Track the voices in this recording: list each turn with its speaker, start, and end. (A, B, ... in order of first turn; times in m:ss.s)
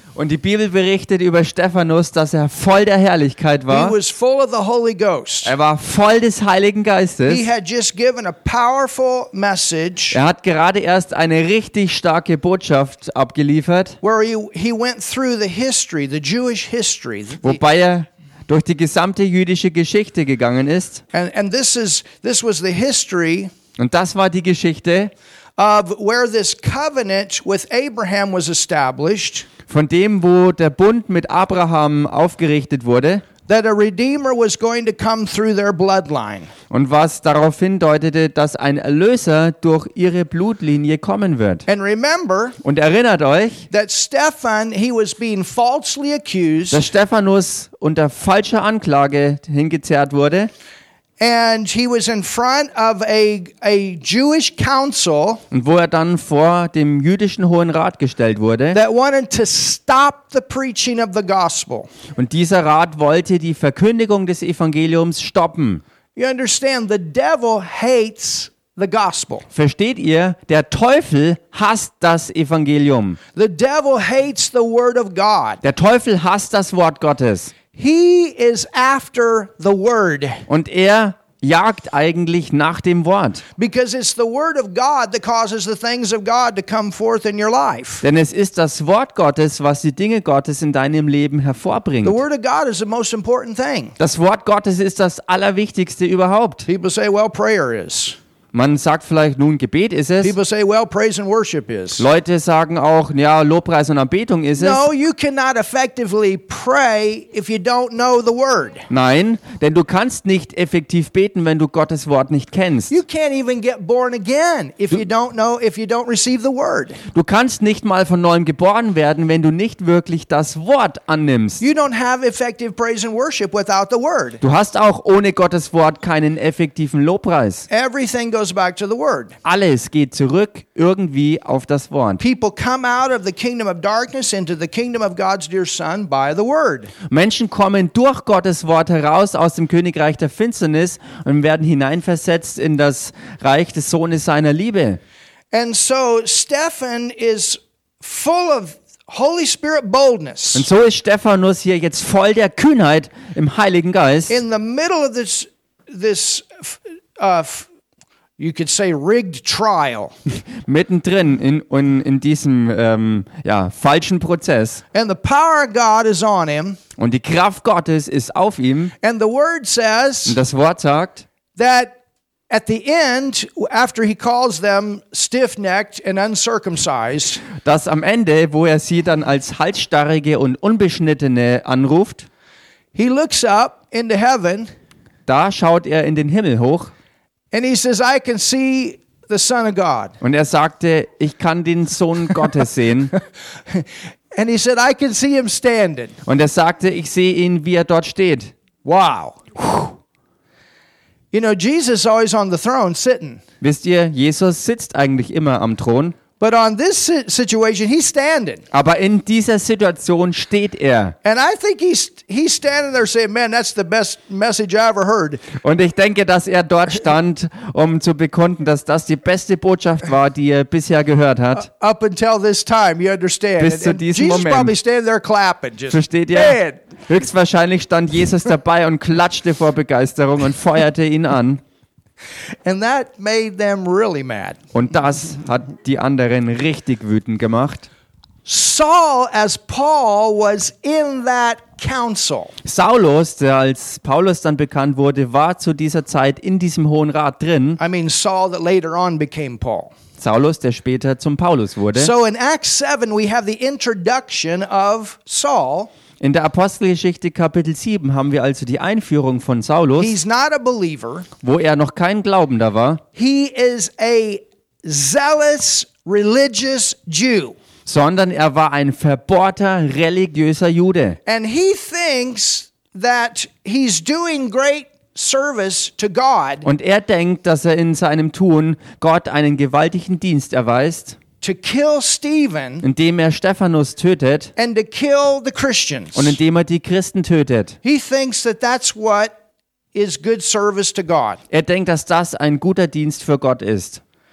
0:00.2-0:04.0 A
0:03.7-0:05.5 B
0:05.4-0:07.5 A
0:07.3-0:10.2 B
0:10.1-0:14.0 A
0:14.0-0:17.6 B
0:17.4-0:21.0 A
0:21.1-0:23.5 B
0:23.8-0:25.1 A
0:25.6-0:29.5 B
0:29.7-0:33.2 A
0:33.5-0:36.5 B
0:36.7-0:41.6 A
0:41.7-0:42.6 B
0:42.6-0:43.6 A
0:43.7-0:46.8 B
0:46.7-0:50.5 A
0:51.2-0:55.4 B
0:55.5-0:58.8 A
0:58.7-1:01.9 B
1:02.1-1:05.8 A
1:06.2-1:09.4 B
1:09.5-1:13.2 A
1:13.4-1:15.6 B
1:15.6-1:17.5 A
1:17.7-1:20.4 B
1:20.5-1:23.4 A
1:23.6-1:28.0 B
1:28.0-1:32.2 A
1:32.0-1:33.9 B
1:34.0-1:36.6 A
1:36.6-1:38.2 B
1:38.5-1:40.3 A
1:40.2-1:42.0 B
1:42.0-1:44.8 A
1:44.6-1:48.8 B
1:48.9-1:52.9 A
1:52.9-1:57.0 B
1:57.1-2:01.6 A
2:01.6-2:04.4 B
2:04.4-2:07.6 A
2:07.7-2:09.4 B
2:09.4-2:12.2 A
2:12.2-2:16.9 B
2:17.1-2:25.0 A
2:25.5-2:30.7 B
2:30.5-2:34.4 A
2:34.3-2:37.7 B
2:38.4-2:40.1 B
2:40.6-2:44.8 A
2:44.9-2:46.8 B
2:47.0-2:48.9 A
2:49.0-2:50.4 B
2:50.2-2:51.2 A
2:51.6-2:51.9 B
2:52.5-2:57.4 B
2:57.6-3:02.3 A
3:02.9-3:04.7 B
3:05.3-3:06.9 A
3:07.5-3:10.1 B
3:10.2-3:13.1 A
3:13.7-3:16.1 B
3:16.2-3:18.5 A
3:18.8-3:19.9 B
3:21.3-3:23.4 B
3:23.6-3:26.2 A
3:26.4-3:28.6 B
3:28.7-3:31.1 A
3:31.2-3:35.5 B
3:35.6-3:41.7 A
3:41.6-3:46.8 B
3:43.6-3:44.7 A
3:45.9-3:51.6 A
3:52.6-3:54.6 B
3:54.7-3:57.9 A
3:58.4-4:02.5 B
4:02.6-4:07.8 A
4:07.8-4:09.9 B
4:10.2-4:12.1 A
4:12.0-4:15.9 B
4:16.2-4:20.2 A
4:20.0-4:21.3 B
4:21.4-4:23.0 A
4:23.1-4:27.5 B
4:27.8-4:31.2 A
4:31.2-4:36.7 B
4:36.6-4:41.2 A
4:41.4-4:42.8 B
4:42.8-4:44.5 A
4:44.6-4:46.4 B
4:46.1-4:47.8 A
4:47.8-4:49.3 B
4:49.9-4:51.4 B
4:51.5-4:54.0 A